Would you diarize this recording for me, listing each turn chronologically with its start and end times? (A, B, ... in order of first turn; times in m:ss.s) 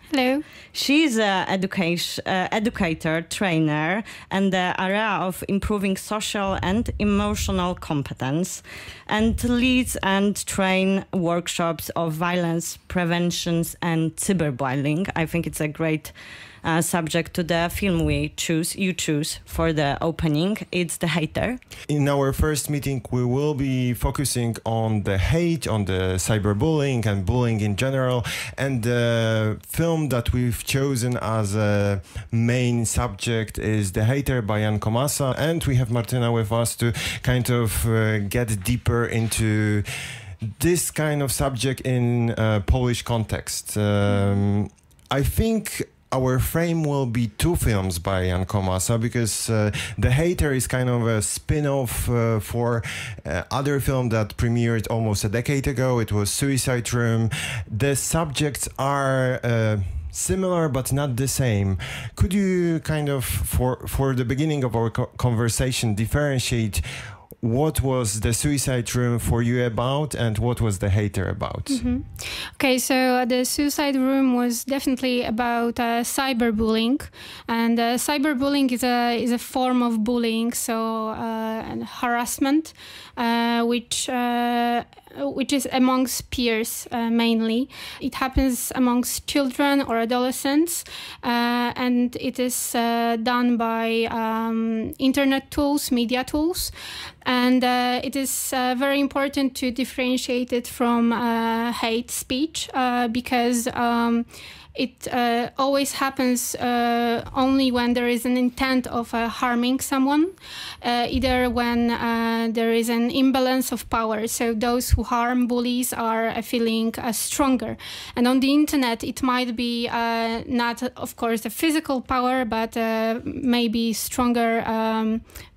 0:00.1-0:00.4 A
0:00.7-0:21.6 B
0:21.9-1:06.8 C
0:44.1-0:44.4 A
1:07.4-1:11.8 C
1:11.7-1:36.7 A
1:37.2-2:05.3 A